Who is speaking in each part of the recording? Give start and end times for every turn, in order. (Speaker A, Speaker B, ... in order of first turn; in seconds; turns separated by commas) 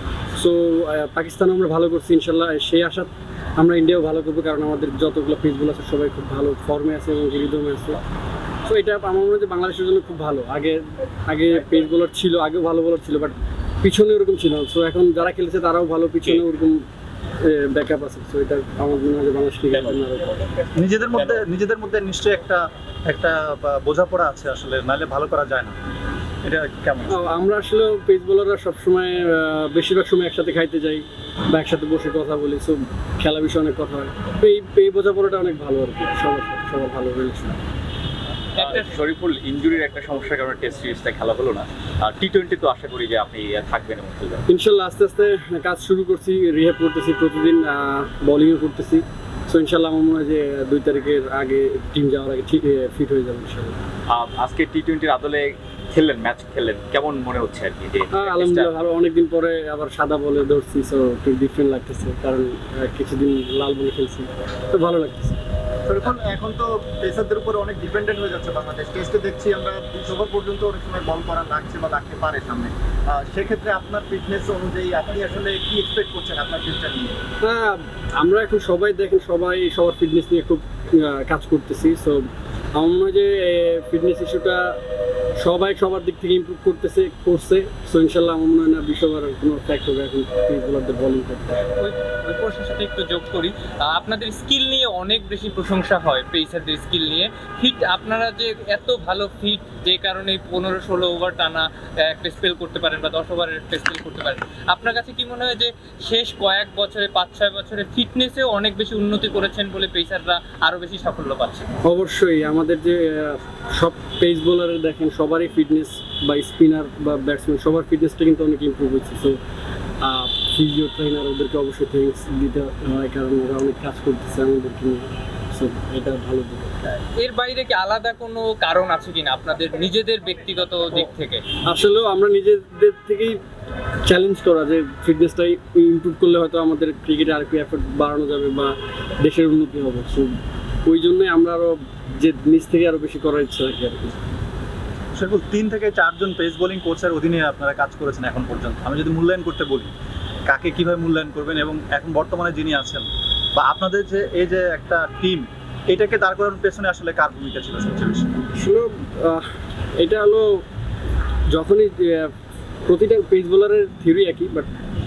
Speaker A: 0.3-8.0, Speaker A: 8.6-16.8, Speaker A: 17.4-20.4, Speaker B: 20.8-25.7, Speaker B: 26.4-27.2, Speaker A: 27.1-37.6, Speaker C: 38.5-44.4, Speaker D: 38.6-38.9, Speaker A: 44.5-53.8, Speaker C: 54.1-58.7, Speaker A: 58.1-65.4, Speaker E: 65.9-77.1, Speaker A: 77.4-84.8, Speaker A: 85.4-91.7, Speaker D: 91.8-111.7, Speaker A: 111.8-119.4, Speaker A: 120.0-126.9, Speaker D: 127.2-131.4, Speaker A: 131.6-133.4, Speaker A: 134.0-144.2, Speaker B: 145.2-149.9, Speaker B: 150.5-158.3, Speaker A: 158.5-159.5, Speaker A: 160.0-160.6, Speaker A: 161.5-162.3, Speaker A: 162.8-164.7